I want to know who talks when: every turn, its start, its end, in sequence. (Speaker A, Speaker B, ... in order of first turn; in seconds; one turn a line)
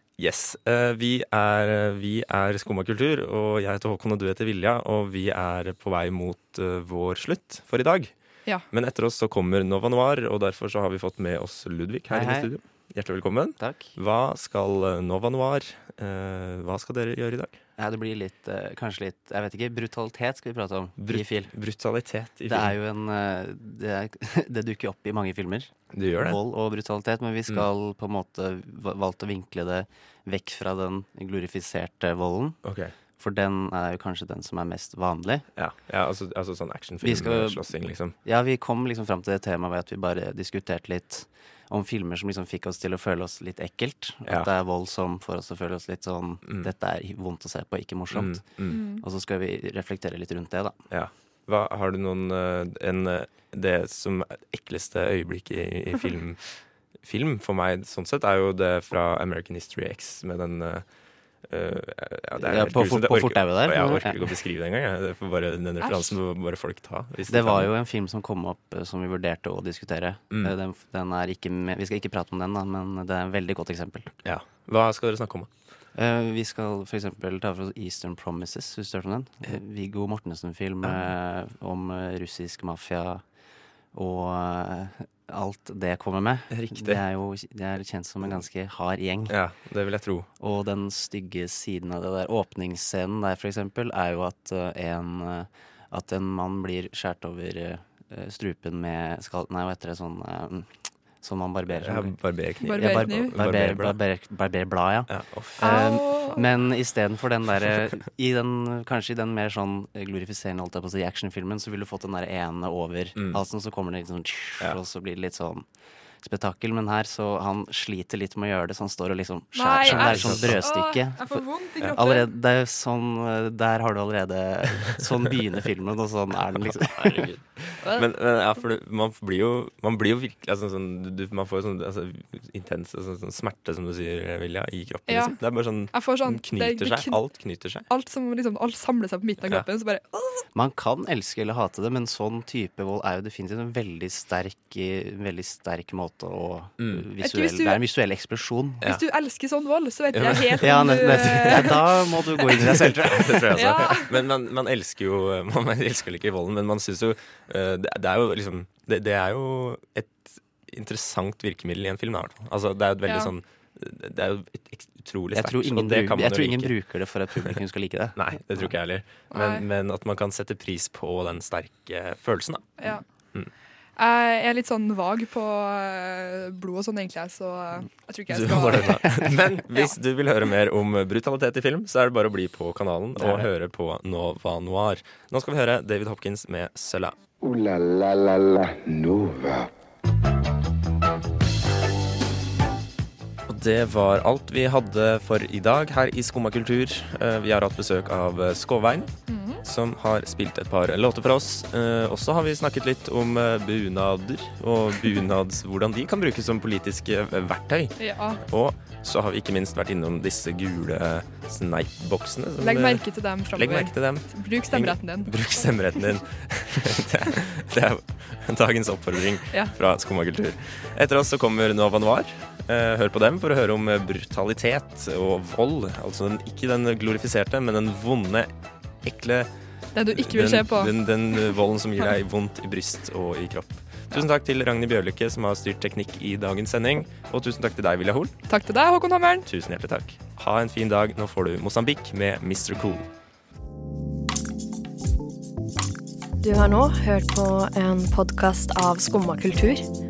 Speaker A: 0.2-8.1
Speaker A: 8.7-17.6
Speaker B: 12.1-12.5
Speaker B: 13.6-13.9
Speaker B: 17.8-21.5
Speaker A: 21.0-22.8
Speaker B: 22.5-32.6
Speaker A: 25.9-26.4
Speaker A: 32.6-32.9
Speaker B: 33.2-35.5
Speaker A: 35.5-38.1
Speaker B: 37.0-37.7
Speaker B: 38.2-50.8
Speaker A: 46.4-46.7
Speaker A: 48.1-48.8
Speaker C: 48.7-49.0
Speaker A: 50.9-56.4
Speaker A: 57.0-60.8
Speaker A: 61.5-67.7
Speaker B: 62.4-64.4
Speaker C: 65.8-66.1
Speaker B: 67.3-74.1
Speaker A: 74.2-75.5
Speaker B: 75.9-83.2
Speaker A: 80.8-81.1
Speaker B: 83.9-89.3
Speaker A: 86.5-87.0
Speaker A: 89.3-90.3
Speaker B: 90.4-100.7
Speaker B: 101.2-102.2
Speaker A: 101.7-104.0
Speaker C: 102.6-103.4
Speaker B: 102.7-115.7
Speaker A: 105.1-105.7
Speaker C: 105.6-106.4
Speaker A: 113.1-113.4
Speaker B: 116.2-127.3
Speaker C: 119.5-122.3
Speaker A: 119.8-120.6
Speaker A: 126.5-137.9
Speaker C: 135.1-135.4
Speaker C: 135.9-137.2
Speaker C: 137.9-140.4
Speaker B: 140.5-148.8
Speaker A: 146.8-147.1
Speaker C: 147.2-147.8
Speaker C: 148.8-151.8
Speaker A: 150.1-166.7
Speaker B: 150.6-153.7
Speaker C: 153.5-154.2
Speaker C: 163.1-163.3
Speaker B: 165.3-168.7
Speaker A: 168.2-173.5
Speaker C: 169.3-169.7
Speaker C: 174.0-179.0
Speaker A: 178.3-187.2
Speaker B: 183.2-183.5
Speaker D: 187.4-189.7
Speaker A: 193.5-199.1
Speaker C: 199.3-199.6
Speaker A: 199.6-208.0
Speaker C: 208.0-208.4
Speaker A: 208.5-228.5
Speaker C: 212.6-215.3
Speaker A: 229.0-229.5
Speaker C: 229.9-231.5
Speaker A: 230.1-238.3
Speaker C: 238.5-239.4
Speaker A: 239.4-243.1
Speaker E: 246.4-249.9